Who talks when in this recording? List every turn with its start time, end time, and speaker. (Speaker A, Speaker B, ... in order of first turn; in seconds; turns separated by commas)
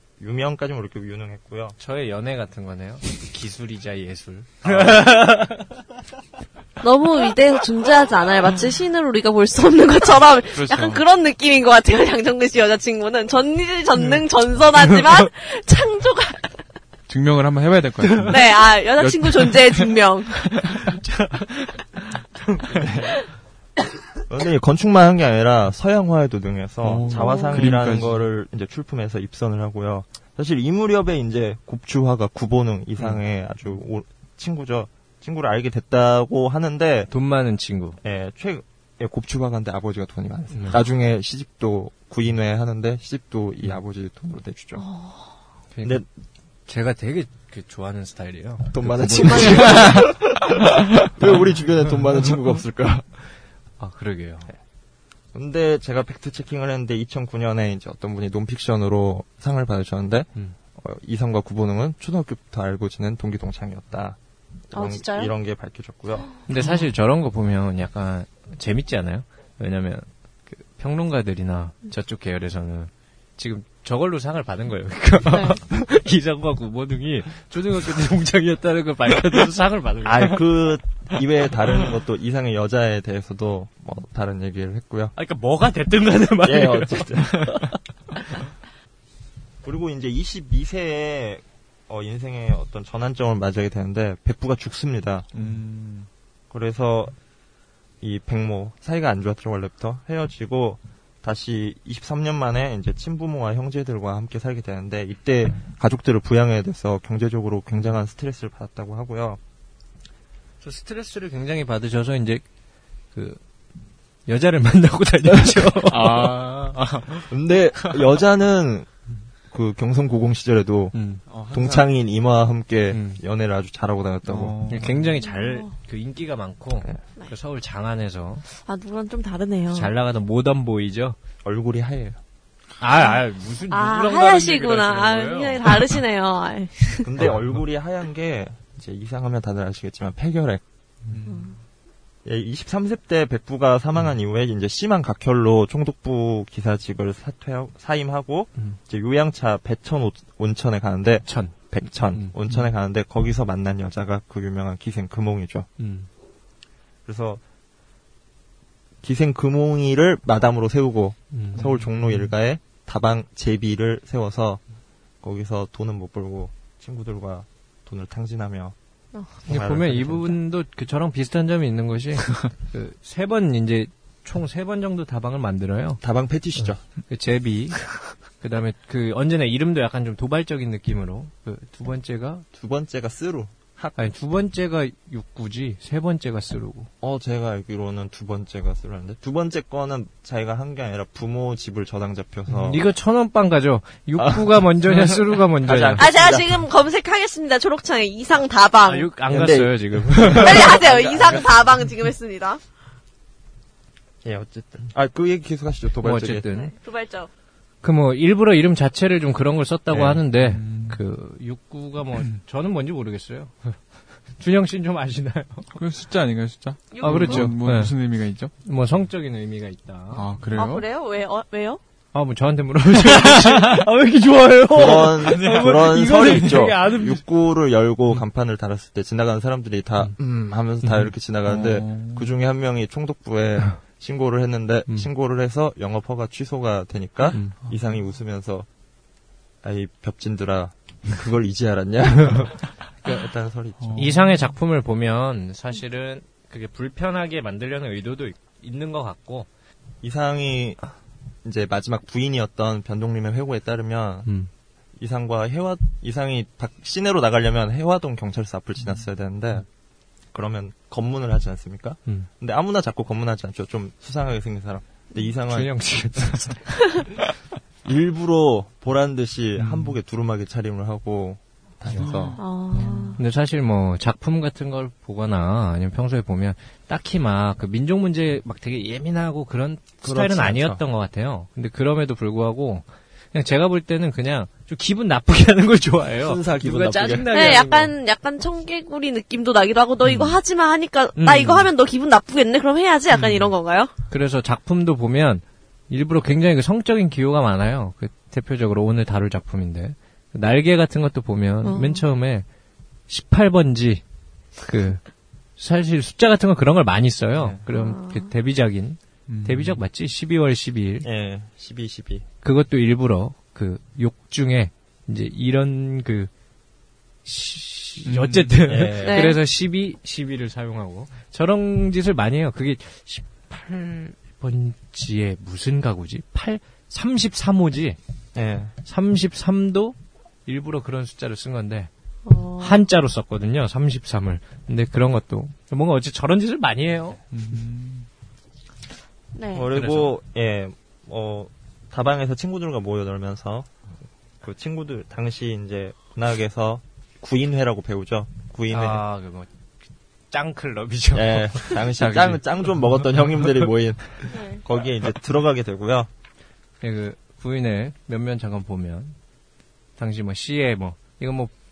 Speaker A: 0.2-1.8, Speaker B: 1.8-5.7, Speaker A: 4.6-5.1, Speaker C: 6.8-16.5, Speaker D: 10.5-11.0, Speaker B: 14.8-15.3, Speaker D: 17.1-19.9, Speaker B: 18.0-18.3, Speaker C: 18.3-20.8, Speaker D: 20.5-20.8, Speaker B: 20.7-21.8, Speaker B: 22.4-23.0, Speaker A: 22.7-23.1, Speaker A: 24.3-37.1, Speaker D: 26.8-28.2, Speaker C: 27.1-27.8, Speaker B: 37.1-38.0, Speaker A: 38.0-44.8, Speaker B: 40.5-40.8, Speaker C: 44.7-45.3, Speaker B: 45.7-46.0, Speaker B: 46.7-50.0, Speaker A: 48.7-53.0, Speaker D: 49.6-50.0, Speaker B: 53.8-54.5, Speaker A: 55.3-64.2, Speaker A: 64.7-66.3, Speaker C: 64.7-65.3, Speaker B: 66.5-80.5, Speaker C: 75.3-75.6, Speaker A: 80.0-85.1, Speaker B: 85.1-87.8, Speaker A: 86.4-87.7, Speaker A: 89.6-95.3, Speaker D: 95.3-96.1, Speaker A: 96.5-97.1, Speaker A: 98.0-109.4, Speaker B: 110.6-112.4, Speaker B: 113.1-113.4, Speaker B: 114.3-116.5, Speaker D: 115.9-117.3, Speaker A: 117.3-118.9, Speaker A: 119.5-121.0, Speaker D: 121.0-121.9, Speaker A: 121.5-124.8, Speaker B: 122.9-123.2, Speaker D: 124.2-125.1, Speaker B: 124.7-128.4, Speaker C: 125.2-125.7, Speaker C: 128.5-129.9, Speaker B: 129.7-131.2, Speaker A: 131.4-132.2, Speaker B: 132.8-135.9, Speaker C: 133.7-137.1, Speaker A: 137.0-140.6, Speaker D: 141.1-141.5, Speaker C: 141.2-141.6, Speaker A: 142.2-155.7, Speaker B: 151.2-152.6, Speaker B: 155.8-156.1, Speaker A: 157.1-157.4, Speaker A: 159.0-164.6, Speaker B: 161.3-161.7, Speaker D: 161.6-162.1, Speaker A: 165.2-168.7, Speaker A: 169.4-170.4, Speaker B: 169.4-176.0, Speaker A: 176.0-176.8, Speaker B: 176.6-182.4, Speaker A: 182.5-184.1, Speaker B: 184.0-186.9, Speaker A: 187.0-192.8, Speaker B: 192.5-196.1, Speaker A: 194.2-196.5, Speaker C: 196.0-199.1, Speaker B: 198.8-200.8, Speaker A: 199.3-201.6, Speaker C: 200.3-202.6, Speaker A: 204.2-206.4, Speaker B: 206.0-206.7, Speaker C: 206.5-207.3, Speaker B: 207.8-213.8, Speaker A: 209.9-210.2, Speaker D: 210.3-211.0, Speaker B: 214.4-215.7, Speaker D: 215.7-218.5, Speaker C: 216.9-217.5, Speaker B: 217.0-218.0, Speaker B: 218.6-220.2, Speaker D: 220.1-220.8, Speaker C: 220.5-221.8, Speaker B: 222.1-227.2, Speaker D: 223.1-223.8, Speaker A: 224.7-238.7, Speaker D: 225.2-226.3, Speaker B: 230.8-231.1, Speaker D: 231.4-232.3, Speaker D: 237.4-237.8, Speaker A: 239.6-244.1, Speaker D: 243.8-244.3, Speaker B: 243.9-249.5, Speaker A: 250.0-250.8, Speaker A: 251.4-254.3, Speaker A: 255.0-259.6, Speaker A: 260.3-265.8, Speaker B: 265.5-266.8, Speaker A: 267.8-272.4, Speaker D: 269.6-269.9, Speaker D: 271.9-273.2, Speaker C: 272.4-273.2, Speaker B: 273.2-287.9, Speaker A: 280.0-280.8, Speaker A: 286.2-287.5, Speaker C: 287.3-293.9, Speaker B: 290.1-290.4, Speaker B: 291.1-291.7, Speaker B: 293.1-293.5, Speaker B: 294.1-302.4, Speaker C: 301.6-302.0, Speaker B: 303.1-304.0, Speaker B: 304.6-305.0, Speaker B: 305.6-311.1, Speaker A: 307.3-307.6, Speaker C: 307.7-308.3, Speaker D: 309.3-309.8, Speaker A: 311.0-312.2, Speaker B: 312.4-316.3, Speaker B: 317.2-328.0, Speaker D: 318.0-318.7, Speaker A: 318.7-319.3, Speaker C: 319.0-319.4, Speaker A: 328.3-328.7, Speaker B: 328.8-331.9, Speaker C: 332.2-332.8, Speaker B: 332.6-337.2, Speaker D: 337.3-338.1, Speaker C: 339.3-339.7, Speaker A: 339.5-343.7, Speaker B: 339.7-340.1, Speaker A: 344.4-349.0, Speaker B: 348.7-349.5, Speaker B: 350.3-353.0, Speaker A: 351.1-356.1, Speaker C: 354.3-354.6, Speaker B: 356.8-359.1, Speaker B: 360.0-361.5